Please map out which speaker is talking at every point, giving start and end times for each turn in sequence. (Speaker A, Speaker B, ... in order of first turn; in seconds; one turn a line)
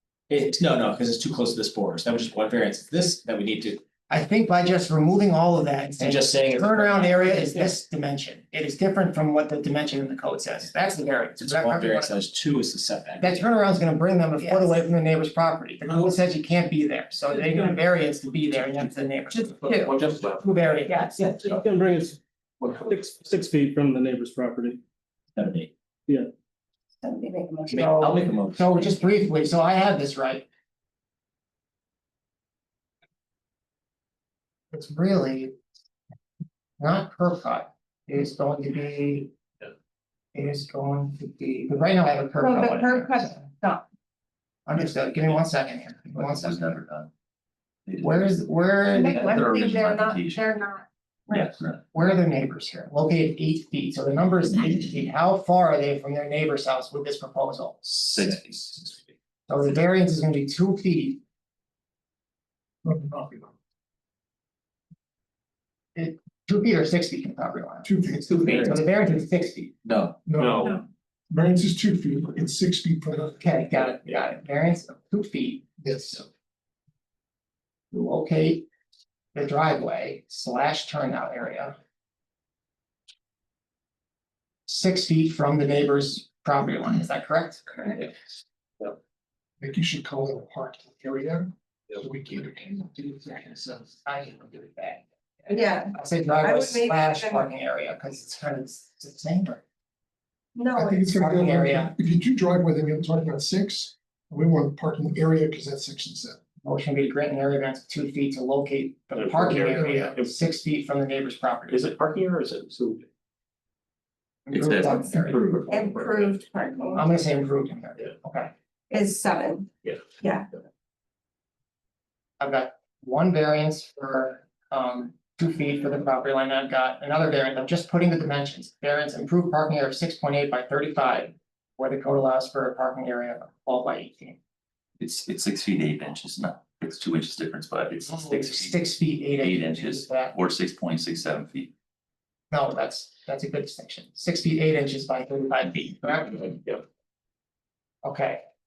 Speaker A: 0.3-3.8
Speaker B: 4.1-12.2
Speaker A: 6.0-7.3
Speaker A: 11.4-13.4
Speaker B: 13.2-21.5
Speaker C: 14.4-14.8
Speaker C: 19.3-19.9
Speaker D: 19.8-20.4
Speaker C: 20.9-21.1
Speaker E: 21.4-24.8
Speaker A: 25.4-25.7
Speaker C: 27.0-27.9
Speaker A: 27.7-29.0
Speaker B: 27.7-30.5
Speaker B: 34.7-35.5
Speaker B: 36.8-39.3
Speaker B: 40.3-43.4
Speaker C: 42.4-43.8
Speaker B: 44.7-46.7
Speaker F: 46.1-47.1
Speaker F: 47.9-50.5
Speaker B: 48.0-49.4
Speaker C: 48.9-51.5
Speaker F: 51.3-51.8
Speaker B: 51.9-57.8
Speaker F: 57.9-58.9
Speaker B: 59.5-61.2
Speaker G: 62.8-63.5
Speaker B: 65.9-69.7
Speaker G: 67.8-68.7
Speaker A: 68.4-68.8
Speaker F: 69.9-70.2
Speaker G: 70.2-70.7
Speaker D: 70.3-70.8
Speaker G: 71.3-73.4
Speaker B: 73.2-75.7
Speaker G: 75.8-76.2
Speaker B: 77.9-78.7
Speaker B: 79.3-81.8
Speaker B: 84.7-88.1
Speaker G: 89.6-93.8
Speaker B: 94.0-99.6
Speaker C: 95.5-97.5
Speaker C: 100.5-101.1
Speaker G: 100.8-106.4
Speaker B: 101.1-101.9
Speaker B: 106.6-111.9
Speaker D: 109.2-110.4
Speaker D: 111.7-113.1
Speaker B: 114.5-115.4
Speaker F: 114.5-115.7
Speaker D: 115.3-116.4
Speaker C: 115.7-117.0
Speaker B: 116.9-118.5
Speaker C: 118.9-120.5
Speaker B: 122.4-134.4
Speaker F: 135.0-138.9
Speaker B: 138.0-140.3
Speaker F: 139.4-141.7
Speaker B: 142.5-146.6
Speaker B: 148.0-148.4